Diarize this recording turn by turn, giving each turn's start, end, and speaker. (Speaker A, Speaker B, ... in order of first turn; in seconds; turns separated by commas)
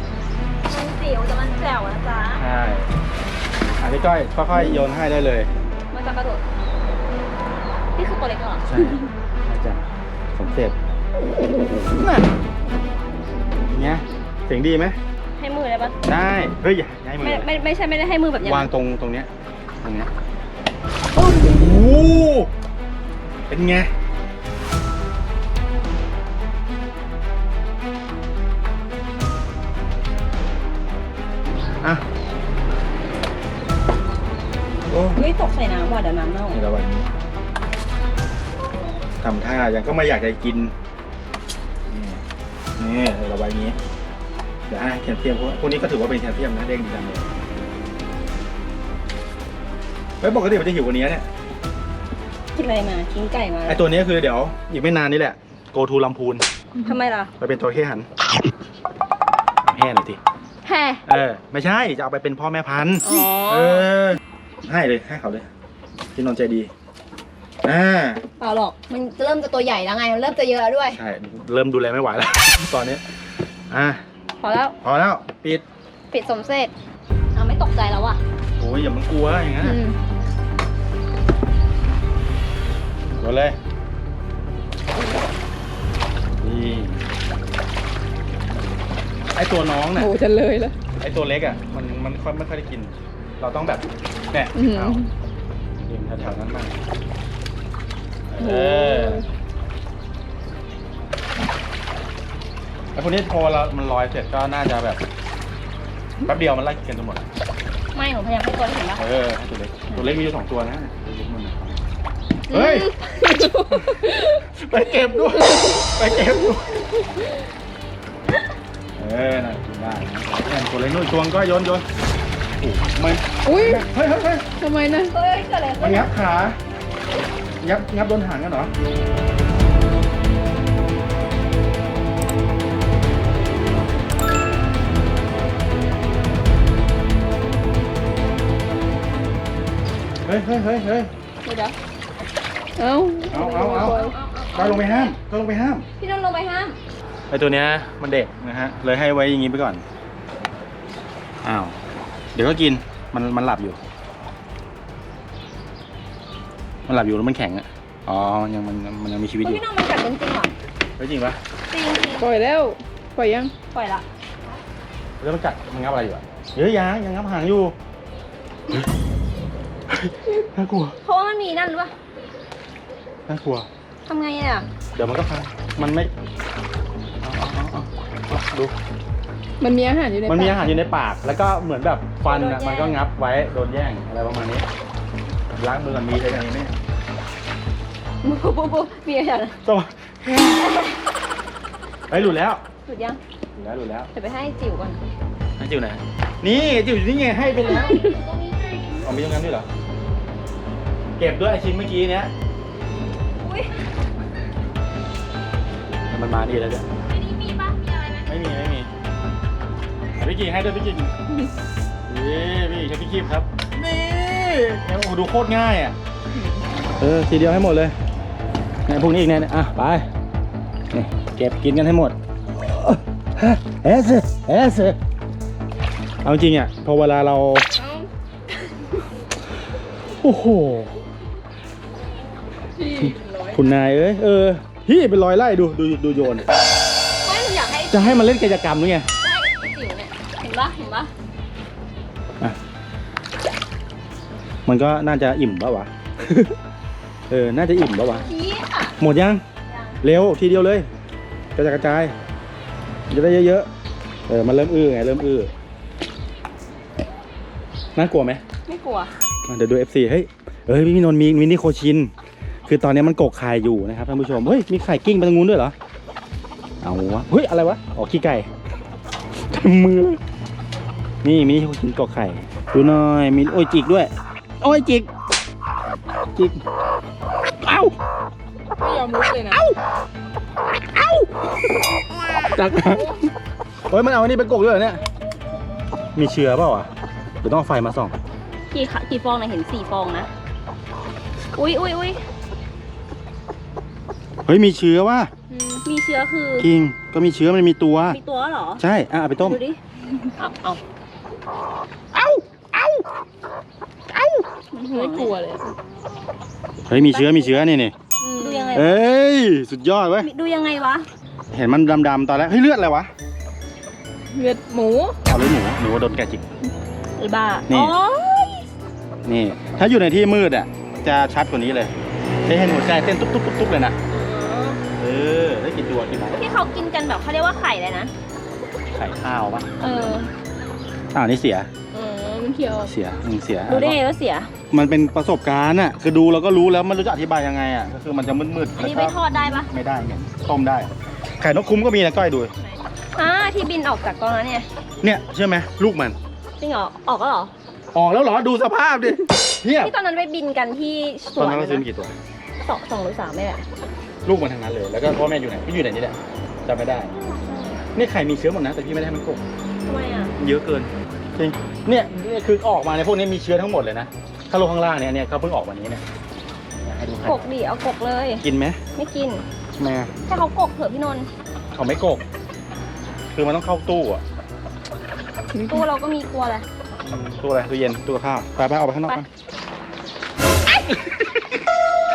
Speaker A: 0.7-2.4, Speaker B: 2.4-2.9, Speaker B: 3.8-5.5, Speaker A: 5.9-6.4, Speaker A: 8.0-9.1, Speaker B: 8.7-9.8, Speaker B: 10.4-10.8, Speaker B: 11.4-12.2, Speaker B: 13.7-15.0, Speaker A: 15.4-16.0, Speaker B: 16.0-17.5, Speaker A: 17.2-18.7, Speaker B: 18.4-19.3, Speaker B: 19.8-20.1, Speaker B: 21.1-22.5, Speaker B: 23.5-23.9, Speaker B: 34.9-35.2, Speaker A: 35.1-36.6, Speaker B: 36.5-37.1, Speaker B: 39.2-40.7, Speaker B: 41.9-42.2, Speaker B: 42.8-43.8, Speaker B: 44.7-47.2, Speaker B: 50.2-51.2, Speaker A: 52.5-53.9, Speaker B: 53.6-56.5, Speaker A: 56.8-57.3, Speaker B: 57.4-58.1, Speaker B: 59.6-60.2, Speaker A: 60.6-61.0, Speaker B: 61.0-65.5, Speaker A: 63.0-63.8, Speaker B: 66.1-66.7, Speaker B: 67.6-68.2, Speaker A: 68.4-71.0, Speaker B: 70.9-73.0, Speaker B: 73.7-74.0, Speaker A: 74.4-74.8, Speaker B: 74.8-75.6, Speaker A: 76.1-76.7, Speaker A: 77.3-78.2, Speaker B: 78.6-79.8, Speaker C: 79.6-80.0, Speaker B: 83.2-83.6, Speaker B: 86.4-87.0, Speaker B: 89.3-90.2, Speaker C: 90.0-90.8, Speaker B: 91.0-95.0, Speaker C: 94.5-95.1, Speaker B: 95.8-96.8, Speaker B: 98.3-99.2, Speaker C: 98.4-99.2, Speaker B: 102.9-105.0, Speaker B: 106.2-107.2, Speaker A: 107.9-109.0, Speaker B: 109.0-111.8, Speaker A: 112.5-113.0, Speaker B: 112.5-116.8, Speaker C: 113.2-114.2, Speaker C: 115.5-115.8, Speaker B: 119.0-121.8, Speaker B: 122.6-124.5, Speaker C: 123.4-123.9, Speaker C: 124.6-125.1, Speaker A: 125.1-126.1, Speaker B: 125.8-126.6, Speaker B: 127.6-128.7, Speaker B: 140.2-141.1, Speaker A: 141.4-141.7, Speaker C: 142.8-144.1, Speaker B: 143.3-144.0, Speaker A: 143.5-145.1, Speaker B: 144.5-145.8, Speaker A: 146.0-146.8, Speaker B: 147.3-149.8, Speaker B: 151.4-151.8, Speaker B: 152.3-153.8, Speaker B: 156.9-159.6, Speaker A: 159.4-160.5, Speaker B: 161.0-161.4, Speaker A: 161.7-162.3, Speaker C: 162.2-163.5, Speaker A: 163.7-164.0, Speaker B: 165.2-167.8, Speaker B: 169.9-170.9, Speaker A: 171.0-171.9, Speaker B: 173.3-173.7, Speaker A: 174.1-174.7, Speaker B: 174.9-176.1, Speaker B: 177.2-178.8, Speaker C: 179.6-180.6, Speaker B: 180.2-184.7, Speaker A: 182.2-183.0, Speaker B: 185.6-186.7, Speaker A: 188.2-189.6, Speaker B: 189.7-190.6, Speaker A: 190.6-190.9, Speaker B: 192.1-192.6, Speaker A: 192.9-193.2, Speaker B: 193.6-194.1, Speaker A: 194.1-195.0, Speaker B: 195.6-198.2, Speaker A: 197.7-199.0, Speaker B: 199.0-199.7, Speaker B: 201.2-202.3, Speaker A: 203.4-203.7, Speaker B: 206.1-206.9, Speaker A: 207.1-208.3, Speaker B: 208.3-208.9, Speaker B: 210.1-211.1, Speaker B: 212.1-215.9, Speaker B: 217.0-217.9, Speaker B: 218.9-220.1, Speaker B: 220.9-225.0, Speaker B: 226.2-227.7, Speaker A: 227.8-228.1, Speaker B: 230.1-231.0, Speaker A: 232.8-233.7, Speaker B: 232.9-236.5, Speaker A: 237.2-238.4, Speaker B: 237.9-239.1, Speaker A: 239.2-241.1, Speaker B: 244.7-246.6, Speaker B: 247.3-248.3, Speaker A: 248.2-248.9, Speaker B: 249.0-249.4, Speaker A: 249.7-250.0, Speaker B: 250.0-250.9, Speaker B: 251.6-252.1, Speaker B: 253.1-253.7, Speaker B: 254.3-255.5, Speaker B: 257.9-258.4, Speaker A: 258.7-259.1, Speaker B: 259.4-262.1, Speaker B: 262.7-265.8, Speaker B: 266.8-268.5, Speaker B: 269.4-270.2, Speaker B: 271.2-275.1, Speaker B: 276.3-276.6, Speaker B: 277.5-278.0, Speaker C: 278.8-279.6, Speaker B: 279.5-279.8, Speaker B: 280.9-281.5, Speaker B: 282.5-283.3, Speaker B: 283.9-285.0, Speaker B: 286.1-286.9, Speaker B: 287.4-288.2, Speaker A: 288.7-290.3, Speaker A: 291.5-292.2, Speaker B: 294.4-295.3, Speaker C: 295.6-295.8, Speaker A: 295.8-296.7, Speaker B: 296.6-298.2, Speaker A: 298.1-298.8, Speaker B: 298.8-299.6, Speaker A: 299.4-299.8, Speaker A: 300.4-300.8, Speaker B: 302.1-303.0, Speaker B: 304.1-304.4, Speaker A: 304.7-305.4, Speaker C: 304.9-305.6, Speaker B: 306.9-307.9, Speaker A: 306.9-307.6, Speaker C: 308.2-308.9, Speaker A: 308.3-308.9, Speaker B: 308.7-310.3, Speaker A: 310.2-311.1, Speaker B: 311.5-313.1, Speaker C: 314.3-315.2, Speaker B: 315.2-316.4, Speaker A: 317.2-318.6, Speaker B: 317.7-317.9, Speaker B: 319.2-321.9, Speaker B: 322.4-323.9, Speaker A: 324.1-324.8, Speaker B: 325.0-326.4, Speaker A: 326.3-328.1, Speaker B: 328.9-329.7, Speaker A: 329.8-330.3, Speaker B: 331.1-331.7, Speaker A: 331.9-332.8, Speaker C: 332.5-332.8, Speaker B: 332.8-334.0, Speaker A: 333.7-334.5, Speaker B: 334.7-342.5, Speaker A: 338.8-339.7, Speaker A: 342.6-344.7, Speaker B: 345.0-346.2, Speaker A: 346.6-347.5, Speaker B: 347.9-349.9, Speaker A: 349.7-351.9, Speaker B: 351.4-352.1, Speaker A: 352.6-353.6, Speaker B: 354.2-357.1, Speaker A: 357.1-357.8, Speaker B: 357.9-359.4, Speaker A: 359.9-360.3, Speaker B: 360.4-366.0, Speaker B: 366.8-367.5, Speaker A: 367.2-368.4, Speaker B: 368.4-368.8, Speaker A: 368.9-369.4, Speaker B: 369.8-370.1, Speaker A: 370.2-371.3, Speaker B: 371.7-372.2, Speaker B: 373.3-374.2, Speaker C: 375.5-375.8, Speaker A: 375.6-376.6, Speaker B: 377.0-379.3, Speaker B: 380.7-381.6